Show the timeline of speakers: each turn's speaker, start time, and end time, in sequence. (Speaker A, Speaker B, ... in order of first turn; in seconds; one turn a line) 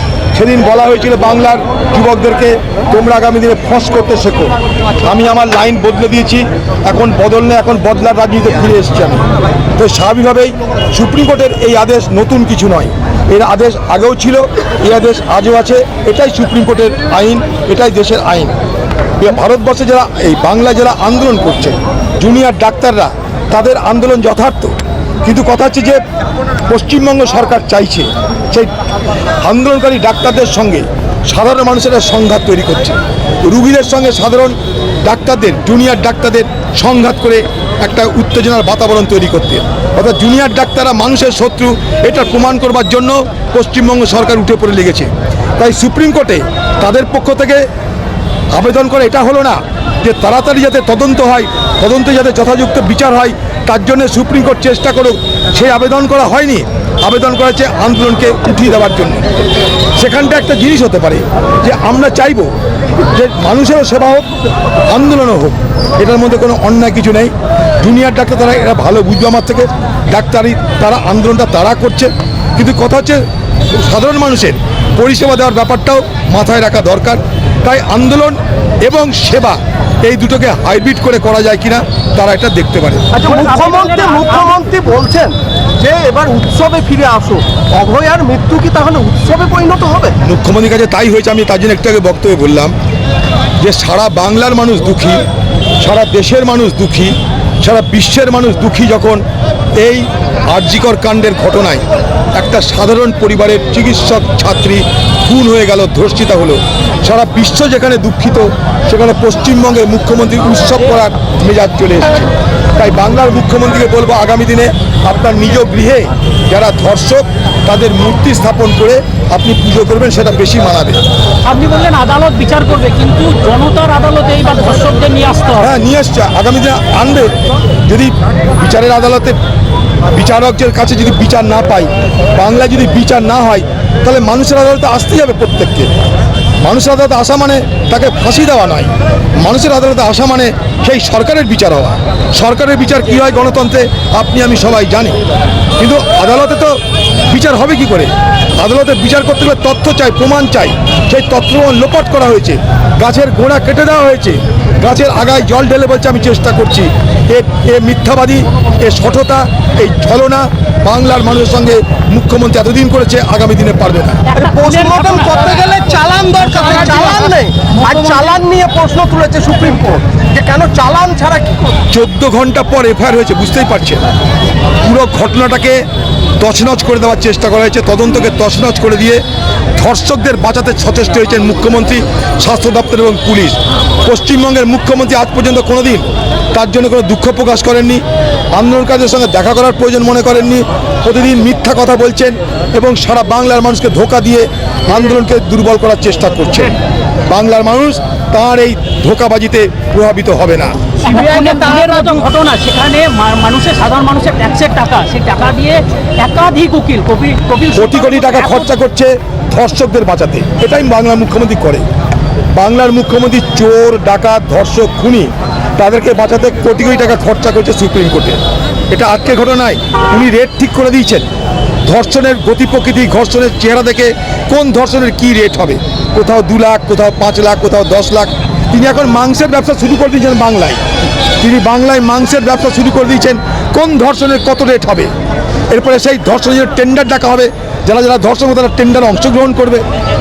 Speaker A: 0.3-9.2
Speaker A: 9.7-18.5
Speaker A: 19.2-26.0
Speaker A: 26.7-28.7
Speaker A: 29.4-47.6
Speaker A: 48.5-59.3
Speaker A: 60.0-62.5
Speaker A: 63.1-64.3
Speaker A: 64.9-73.2
Speaker A: 73.7-83.1
Speaker B: 83.1-90.2
Speaker C: 83.2-84.7
Speaker A: 90.2-92.7
Speaker A: 93.6-95.2
Speaker A: 95.8-99.2
Speaker A: 99.8-121.0
Speaker C: 121.4-125.7
Speaker A: 125.6-127.3
Speaker A: 127.8-129.3
Speaker A: 130.1-135.9
Speaker A: 136.6-145.2
Speaker A: 145.8-164.2
Speaker C: 164.2-165.7
Speaker B: 164.3-171.8
Speaker C: 166.3-168.4
Speaker A: 171.9-174.0
Speaker A: 174.8-175.8
Speaker A: 176.4-179.2
Speaker A: 179.8-188.0
Speaker A: 188.5-196.7
Speaker A: 197.3-200.8
Speaker C: 201.0-208.7
Speaker B: 201.1-202.2
Speaker A: 207.7-211.8
Speaker A: 212.5-221.3
Speaker A: 221.8-230.8
Speaker A: 231.4-235.1
Speaker A: 235.7-239.8